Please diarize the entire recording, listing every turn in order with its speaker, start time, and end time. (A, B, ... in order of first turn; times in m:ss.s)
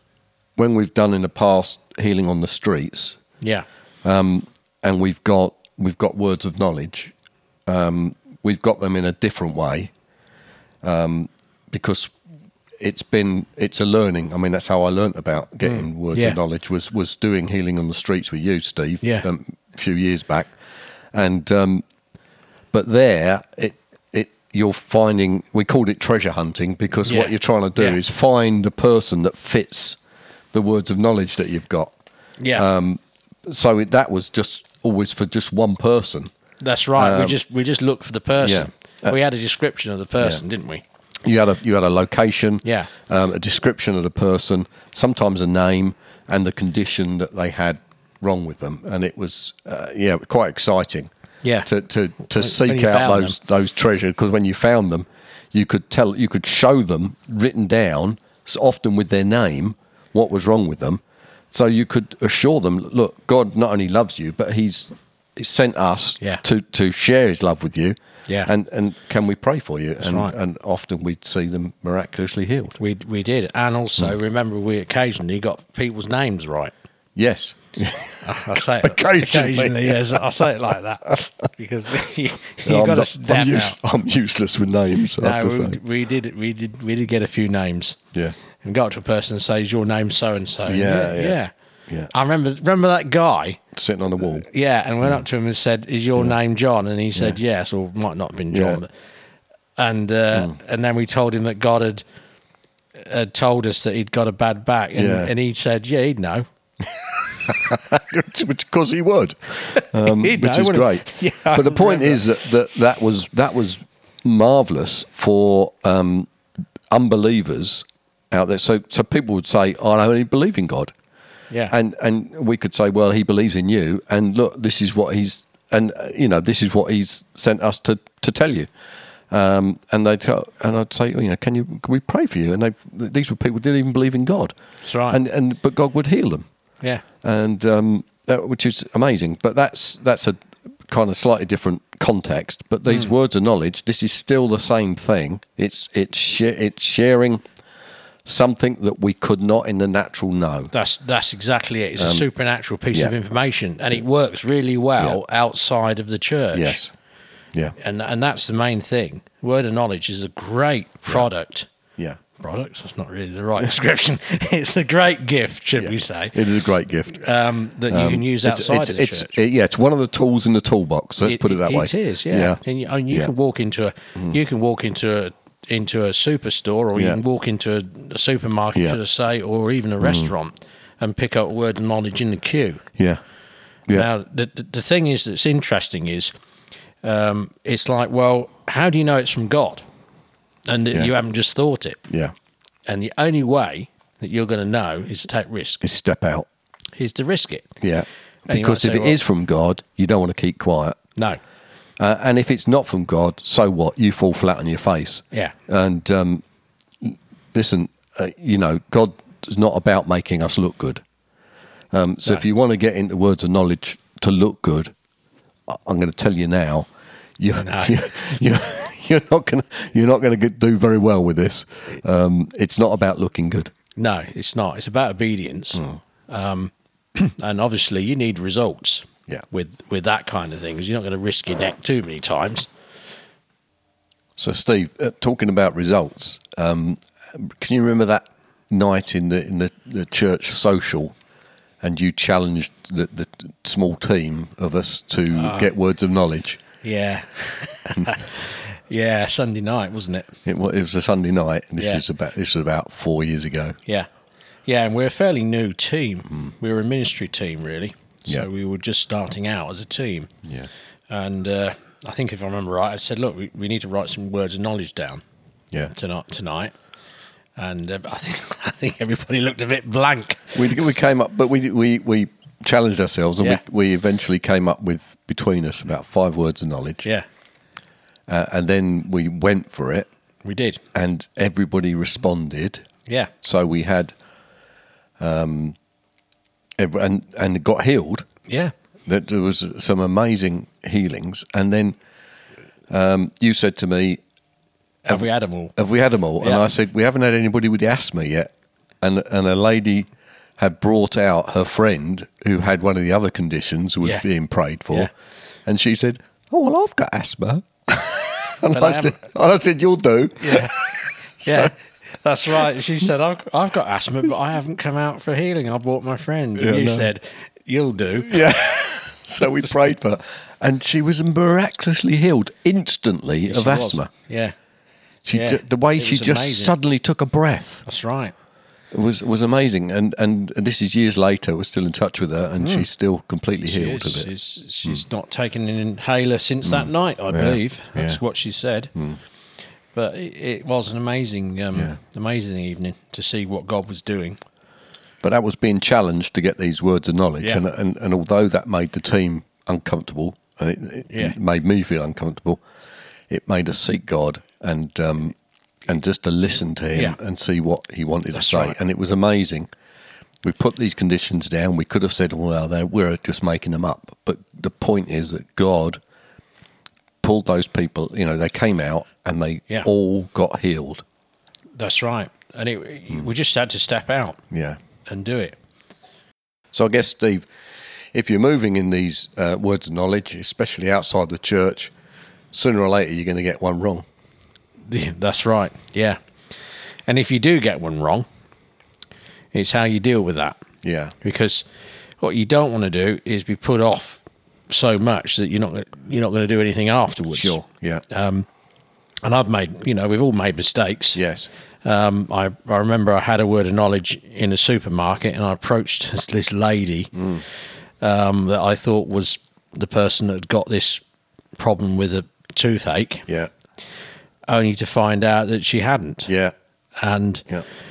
0:00.6-0:03.2 A
0:03.4-0:03.7 B
0:04.0-0:07.1 A
0:07.7-0:09.9 A
0:10.8-0:12.1 A
0:12.8-0:20.5 A
0:15.7-0:16.4 B
0:19.0-0:19.3 B
0:21.1-0:21.8 A
0:22.7-0:30.0 A
0:27.1-0:28.0 B
0:30.5-0:31.9 A
0:32.4-0:32.7 B
0:32.6-0:36.3 A
0:36.6-0:40.8 B
0:37.0-0:37.4 A
0:38.4-0:39.2 A
0:41.2-0:51.1 A
0:42.6-0:42.9 B
0:51.4-0:51.7 B
0:51.6-1:12.8 A
0:52.3-0:53.4 B
1:10.0-1:10.3 B
1:12.8-1:16.7 B
1:17.2-1:20.4 A
1:18.2-1:23.8 B
1:22.6-1:25.8 A
1:25.2-1:28.0 B
1:28.6-1:31.5 B
1:30.7-1:31.4 A
1:32.1-1:33.6 B
1:33.7-1:34.5 A
1:34.2-1:38.9 B
1:37.2-1:37.4 A
1:38.5-1:38.8 A
1:39.8-1:42.0 B
1:43.0-1:46.5 B
1:45.0-1:45.3 A
1:47.4-1:56.3 A
1:49.8-1:52.2 B
1:56.9-2:00.9 A
2:01.7-2:08.7 A
2:09.3-2:14.6 A
2:14.8-2:15.2 B
2:15.1-2:16.4 A
2:17.2-2:27.4 A
2:28.3-2:30.7 A
2:30.7-2:36.8 B
2:32.0-2:32.3 A
2:36.5-2:36.9 A
2:37.8-2:41.7 B
2:42.4-2:46.4 B
2:45.8-2:47.2 A
2:47.1-2:49.4 B
2:47.9-2:52.6 A
2:51.2-3:02.8 B
2:57.0-2:57.2 A
3:00.0-3:00.3 A
3:03.0-3:03.2 A
3:03.9-3:06.3 B
3:07.0-3:09.8 B
3:10.7-3:12.0 B
3:12.9-3:15.8 B
3:15.8-3:16.5 A
3:17.0-3:17.8 B
3:17.8-3:21.0 A
3:18.5-3:19.2 B
3:22.0-3:26.4 A
3:27.0-3:31.0 A
3:31.9-3:34.9 A
3:35.7-3:43.7 A
3:37.6-3:37.9 B
3:44.0-3:52.7 B
3:54.4-4:01.2 A
4:01.8-4:06.6 A
4:05.3-4:05.7 B
4:06.8-4:10.4 B
4:07.9-4:08.2 A
4:10.4-4:13.8 A
4:14.7-4:20.3 B
4:20.4-4:20.7 A
4:21.1-4:25.2 B
4:25.9-4:26.7 B
4:27.6-4:30.6 B
4:30.6-4:37.1 A
4:38.3-4:40.1 A
4:40.4-4:40.8 B
4:40.9-4:42.9 A
4:43.1-4:43.3 B
4:43.4-4:44.2 A
4:45.2-4:45.8 A
4:46.8-4:48.3 A
4:48.5-4:48.7 B
4:49.1-4:52.0 A
4:52.9-4:54.2 A
4:55.0-4:55.8 B
4:55.8-4:58.5 A
4:56.4-4:56.7 B
4:59.0-5:00.1 A
5:00.6-5:05.1 A
5:05.7-5:11.7 A
5:08.7-5:09.2 B
5:10.4-5:10.7 B
5:11.4-5:18.5 B
5:16.6-5:17.1 A
5:18.2-5:24.1 A
5:23.5-5:24.6 B
5:25.2-5:27.8 A
5:25.3-5:26.7 B
5:27.9-5:28.3 B
5:28.9-5:34.3 A
5:33.7-5:38.9 B
5:36.6-5:38.2 A
5:39.9-5:44.4 B
5:45.2-5:52.6 A
5:53.3-5:55.4 A
5:55.9-5:59.7 A
5:58.3-5:58.8 B
6:00.4-6:06.0 A
6:07.2-6:11.0 A
6:11.8-6:14.4 B
6:14.5-6:14.8 A
6:15.1-6:15.6 B
6:16.7-6:17.5 A
6:18.1-6:21.9 A
6:22.5-6:24.0 A
6:24.9-6:26.2 B
6:27.1-6:28.3 B
6:29.5-6:30.6 B
6:30.8-6:31.2 A
6:31.2-6:31.6 B
6:32.2-6:37.6 B
6:37.3-6:38.0 A
6:38.1-6:38.5 B
6:39.2-6:41.2 B
6:41.2-6:41.5 A
6:41.8-6:47.1 B
6:47.2-6:47.4 A
6:48.0-6:51.0 B
6:51.6-6:53.2 B
6:54.5-6:56.3 B
6:56.3-6:56.5 A
6:57.0-6:57.5 B